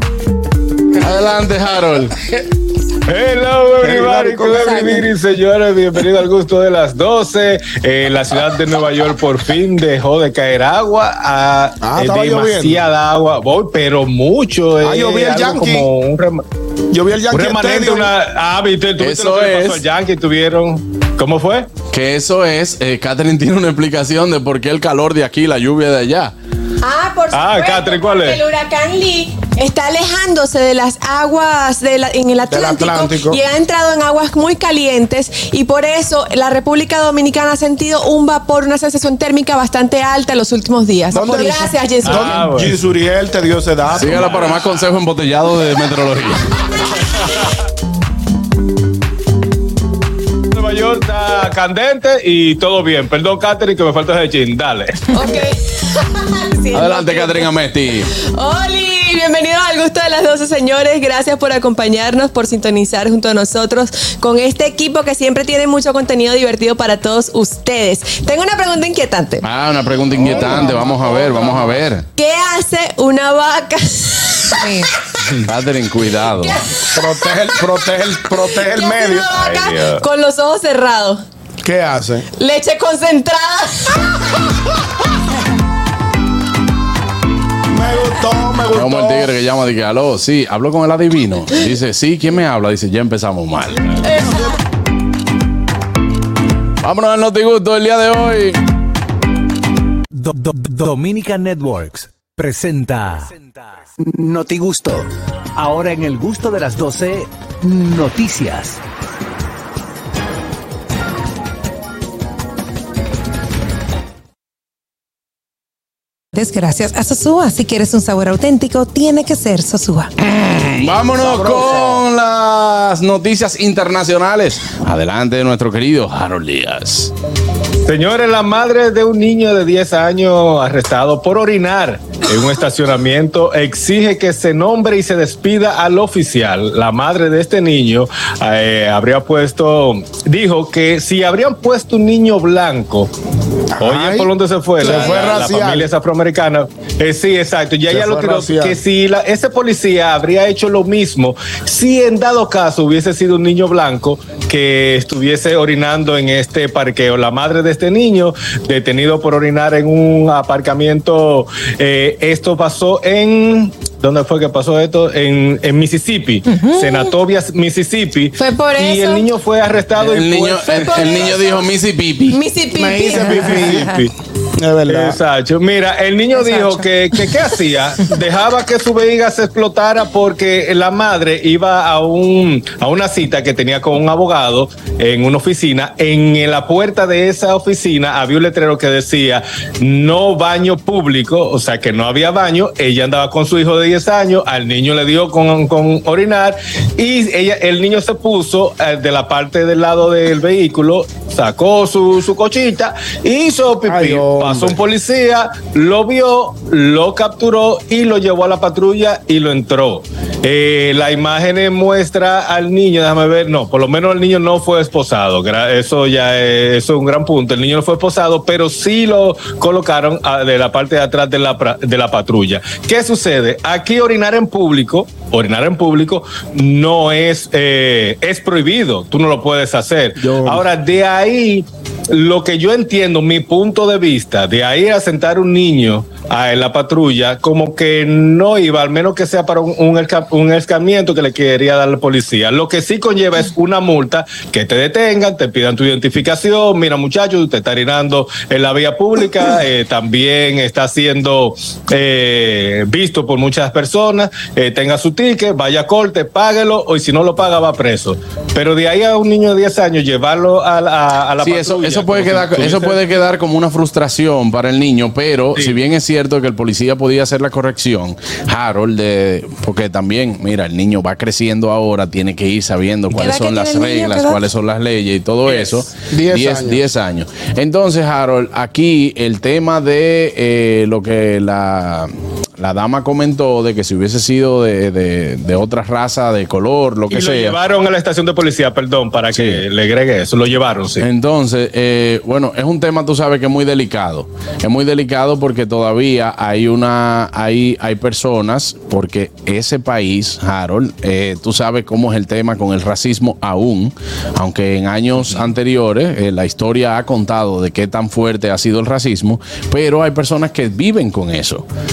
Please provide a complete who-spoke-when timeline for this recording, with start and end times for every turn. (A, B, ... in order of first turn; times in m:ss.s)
0:01.0-0:02.2 A
0:03.1-0:16.4 B
0:03.8-0:05.1 C
0:04.6-0:05.0 D
0:11.8-0:12.8 C
0:14.8-0:15.9 C
0:16.9-0:18.1 C
0:17.3-0:21.7 B
0:19.0-0:19.8 A
0:21.9-0:26.3 A
0:26.8-0:42.5 E
0:27.3-0:28.4 B
0:32.5-0:33.4 C
0:41.1-0:44.4 C
0:42.0-0:42.7 B
0:44.0-0:46.4 A
0:50.5-0:55.1 B
0:55.1-0:57.6 E
0:56.7-0:58.1 A
0:58.2-1:09.4 E
1:09.4-1:12.0 A
1:10.2-1:11.7 C
1:12.1-1:14.6 E
1:14.6-1:14.9 D
1:15.4-1:16.6 A
1:16.9-1:19.3 C
1:18.5-1:21.2 E
1:19.3-1:20.0 B
1:21.6-1:22.2 C
1:22.3-1:24.1 E
1:27.7-1:29.3 C
1:28.7-1:34.0 A
1:34.0-1:34.6 C
1:34.1-1:34.4 E
1:36.8-1:38.6 A
1:40.1-1:48.8 F
1:56.3-2:00.1 D
2:00.2-2:07.1 A
2:01.1-2:02.0 C
2:07.8-2:23.1 B
2:23.7-2:25.9 C
2:23.8-2:51.4 B
2:27.9-2:28.8 C
2:46.5-2:47.1 D
2:48.4-2:49.3 E
2:50.0-2:52.4 A
2:50.6-2:51.7 E
2:52.3-2:53.9 E
2:52.7-2:55.2 C
2:53.1-2:53.9 D
2:54.9-4:23.0 B
2:56.4-2:56.8 D
3:23.8-3:24.8 C
3:50.2-3:50.6 C
4:21.4-4:47.6 A
4:33.1-4:34.4 D
4:35.4-4:35.8 B
4:36.1-4:36.8 C
4:47.1-4:51.0 B
4:49.3-4:49.6 A
4:51.0-5:11.6 A